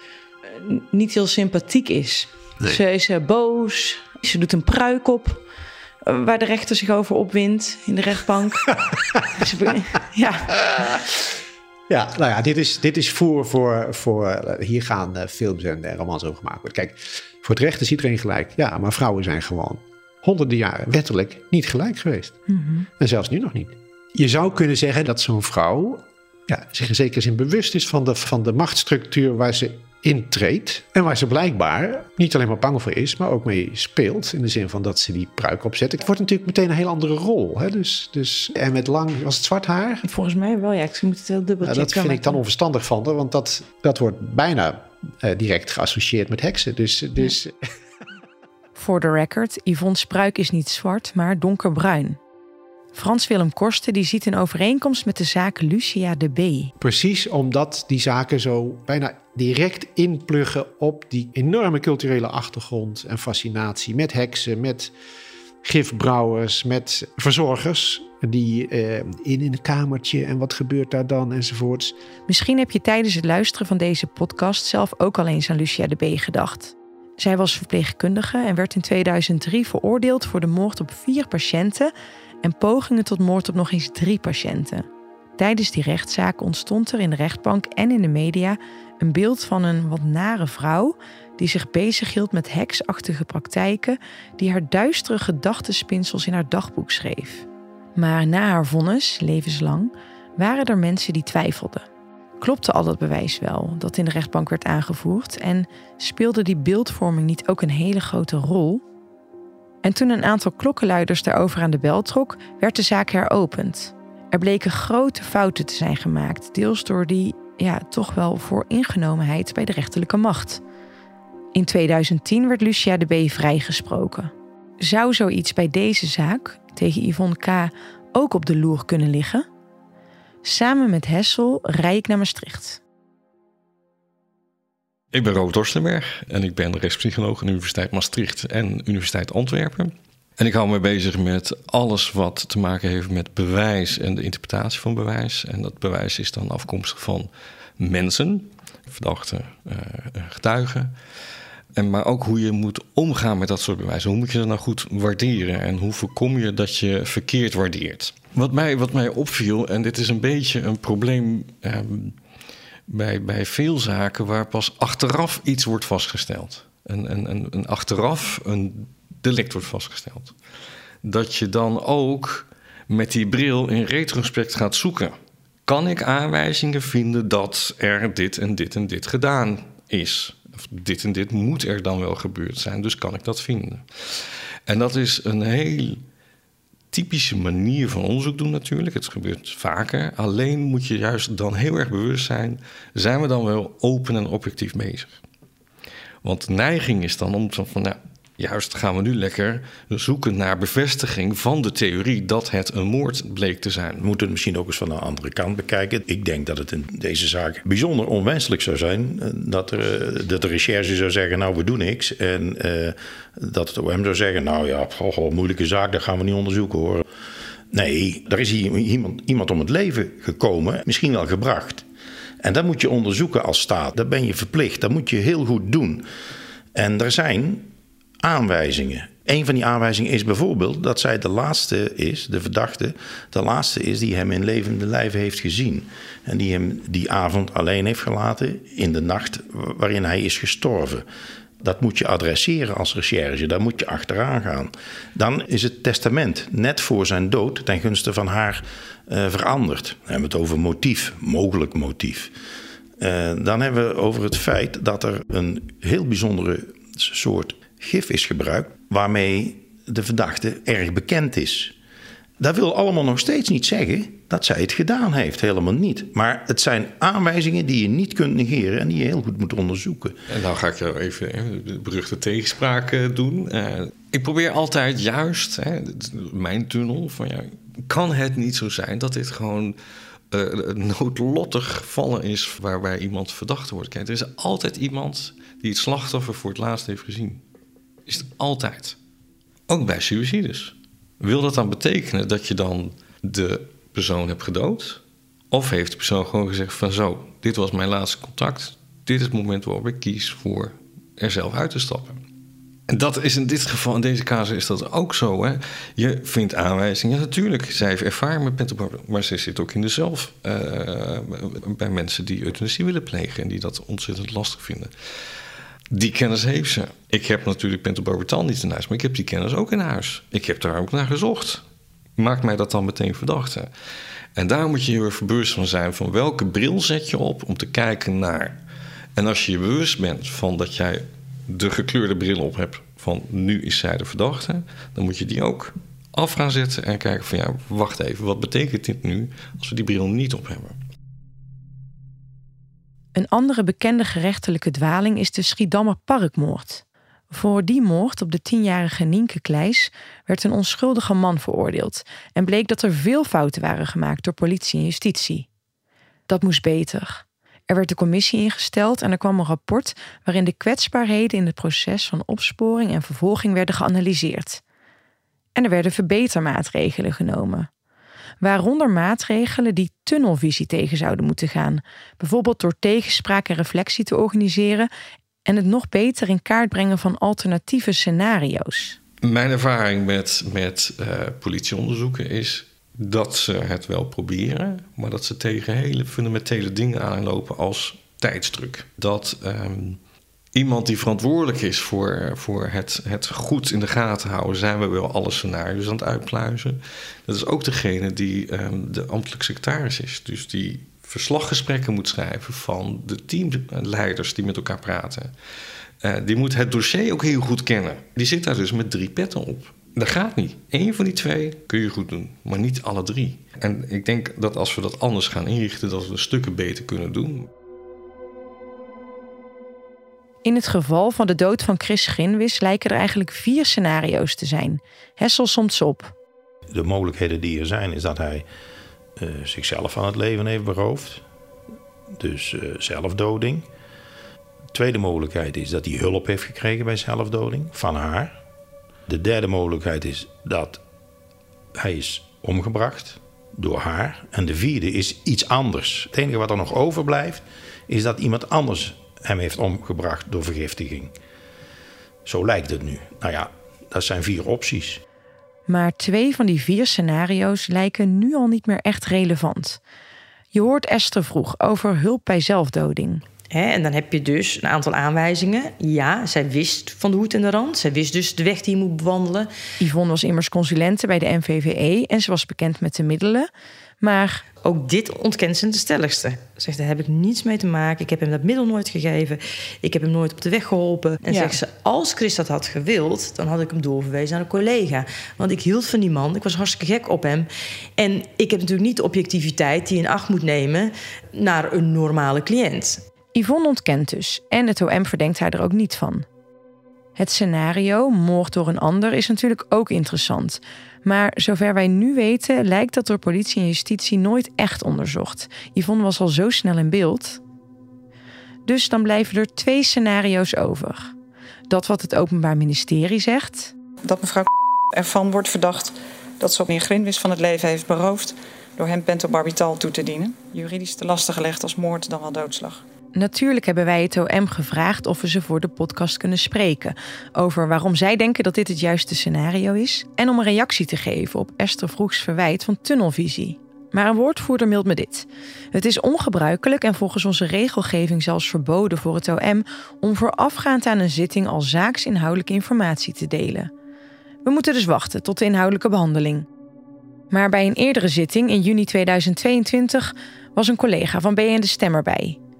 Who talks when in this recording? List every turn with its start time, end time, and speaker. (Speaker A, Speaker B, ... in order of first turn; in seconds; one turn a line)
Speaker A: 0.5-5.4
Speaker A: 6.0-8.7
Speaker A: 9.3-10.6
Speaker B: 11.9-40.0
Speaker A: 22.5-22.9
Speaker C: 40.0-42.4
Speaker B: 41.6-47.5
Speaker A: 48.8-52.2
Speaker A: 52.9-56.7
Speaker B: 56.8-64.9
Speaker B: 65.6-71.9
Speaker A: 72.3-101.8
Speaker A: 102.4-108.8
Speaker A: 109.8-120.6
Speaker A: 121.5-129.4
Speaker A: 130.4-132.8
Speaker D: 135.1-150.9
Speaker D: 151.7-162.2
Speaker D: 162.9-170.3
Speaker D: 171.0-175.1
Speaker D: 175.7-186.0
Speaker D: 186.9-195.2
Speaker D: 196.2-204.0
Speaker E: 204.0-217.0
Speaker E: 217.7-221.8
Speaker E: 222.4-226.1
Speaker E: 226.7-241.0
Speaker E: 241.6-252.3
Speaker E: 253.0-261.7
Speaker E: 262.4-270.2
Speaker D: 270.3-279.8
Speaker D: 280.3-287.4
Speaker D: 288.1-289.0
Speaker D: 289.7-302.2
Speaker D: 302.9-314.9
Speaker D: 315.9-321.6
Speaker D: 322.2-323.7
Speaker D: 324.4-328.6
Speaker D: 329.1-340.8
Speaker A: 343.1-355.5
Speaker A: 356.3-364.6
Speaker A: 365.6-367.7
Speaker A: 368.4-374.9
Speaker A: 375.4-379.0
Speaker D: 379.2-390.0
Speaker D: 390.5-405.3
Speaker D: 406.0-417.5
Speaker A: 420.4-426.1
Speaker E: 426.7-428.4
Speaker E: 429.2-431.2
Speaker E: 432.2-433.7
Speaker E: 434.7-438.4
Speaker E: 439.1-440.8
Speaker E: 441.7-451.1
Speaker E: 452.2-455.0
Speaker A: 455.7-459.8
Speaker A: 460.5-463.2
Speaker F: 463.5-469.5
Speaker A: 469.8-473.5
Speaker A: 474.0-474.4
Speaker F: 474.6-493.0
Speaker A: 481.3-481.5
Speaker A: 493.3-496.2
Speaker A: 497.1-507.4
Speaker A: 508.6-511.1
Speaker A: 511.7-513.7
Speaker G: 514.0-522.8
Speaker A: 523.1-543.7
Speaker A: 544.4-546.5
Speaker A: 547.3-552.4